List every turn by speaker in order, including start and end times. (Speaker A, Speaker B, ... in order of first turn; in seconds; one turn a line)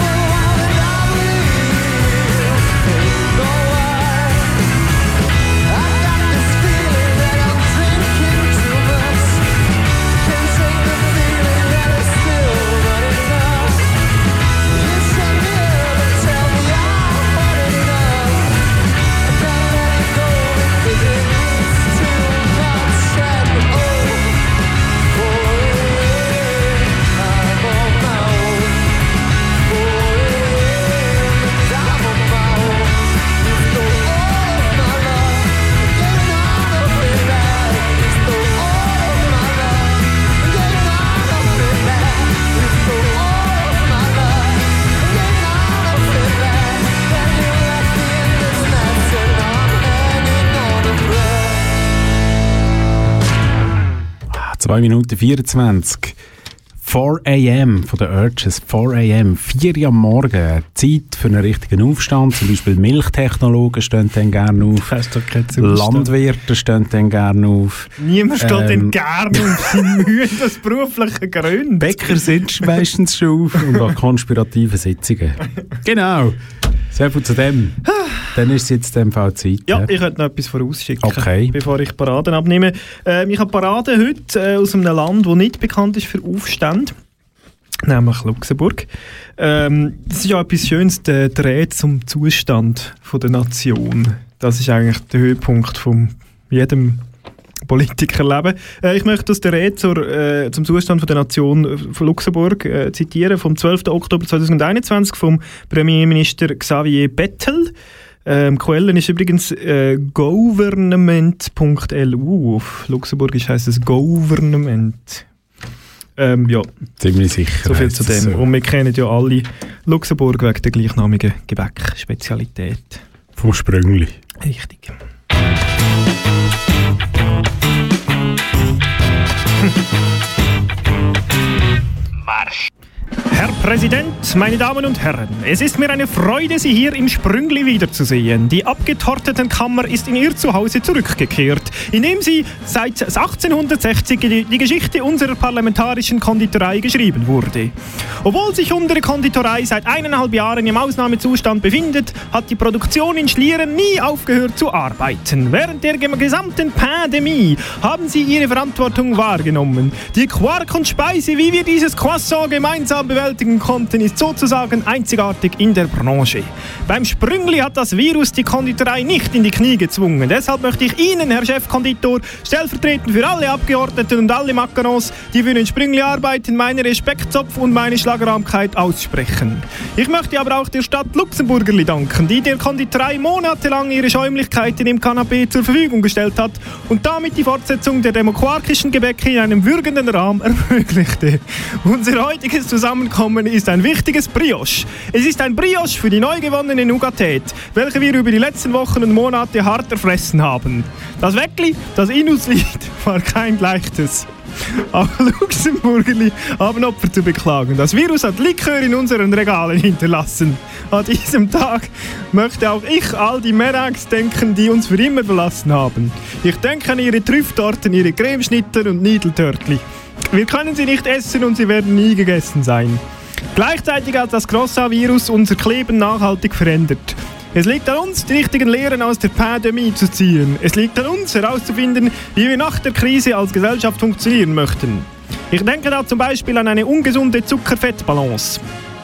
Speaker A: 54.3-56.2
Speaker A: 56.8-64.9
Speaker B: 64.8-66.1
Speaker A: 65.5-69.8
Speaker B: 68.0-72.4
Speaker A: 71.8-76.4
Speaker A: 76.9-77.8
Speaker A: 78.3-79.9
Speaker B: 79.7-87.0
Speaker A: 81.0-81.5
Speaker B: 87.9-88.9
Speaker B: 89.4-97.0
Speaker B: 97.7-107.7
Speaker B: 108.2-115.2
Speaker B: 116.2-116.7
Speaker A: 117.0-118.5
Speaker B: 117.6-123.0
Speaker A: 123.4-124.2
Speaker B: 124.4-125.0
Speaker B: 133.3-223.0
Speaker B: 223.5-238.6